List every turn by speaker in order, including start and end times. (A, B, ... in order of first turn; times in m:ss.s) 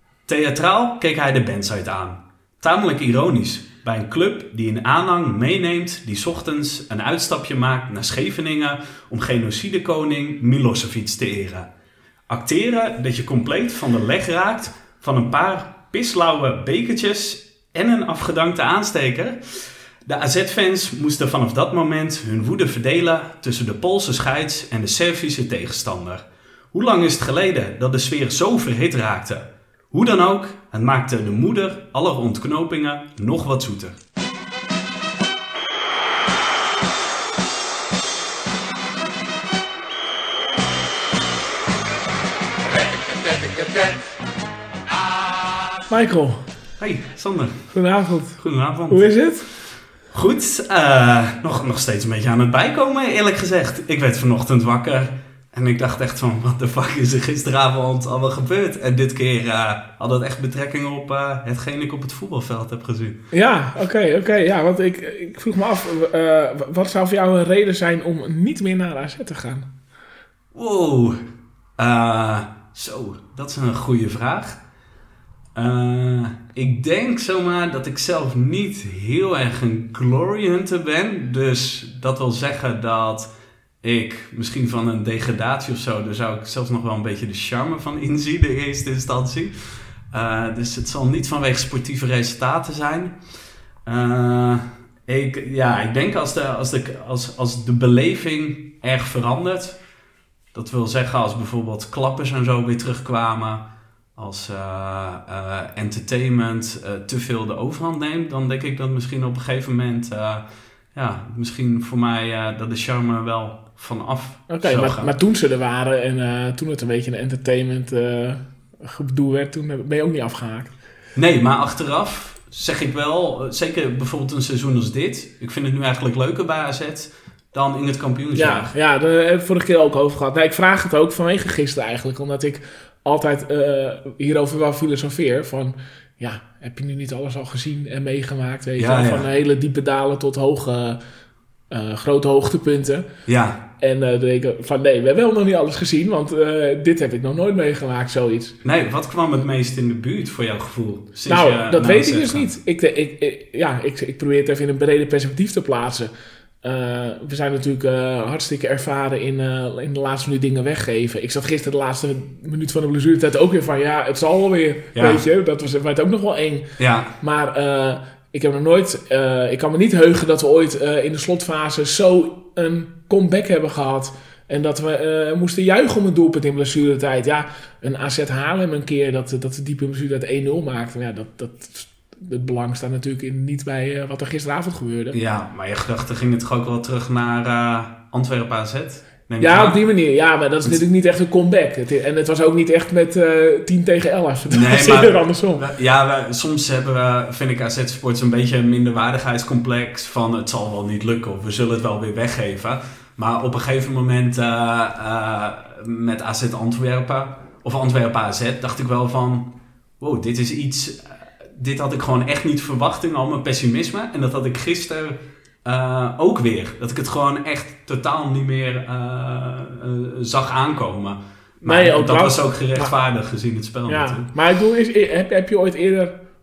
0:00.3-0:11.7 A
0:12.3-0:34.0 A
0:45.9-0:46.4 B
0:46.8-0:47.7 A
0:47.7-0:49.5 B
0:48.4-0:49.0 A
0:50.1-1:03.2 A
1:03.3-1:09.7 B
1:10.5-1:11.2 A
1:11.8-1:14.6 A
1:15.5-1:23.3 A
1:23.8-1:33.2 A
1:33.8-1:39.8 A
1:40.5-1:55.1 A
1:54.5-2:00.7 B
2:01.2-2:08.7 A
2:08.3-2:21.0 B
2:18.8-2:19.2 A
2:21.7-2:23.0 B
2:23.3-2:23.6 A
2:23.8-2:28.6 B
2:28.6-2:32.5 A
2:31.3-2:36.1 B
2:36.6-3:05.2 B
2:44.9-2:45.2 A
2:46.8-2:47.1 A
3:05.1-3:09.8 A
3:09.4-3:15.7 B
3:14.5-3:44.3 A
3:41.6-3:42.9 B
3:43.9-3:46.2 B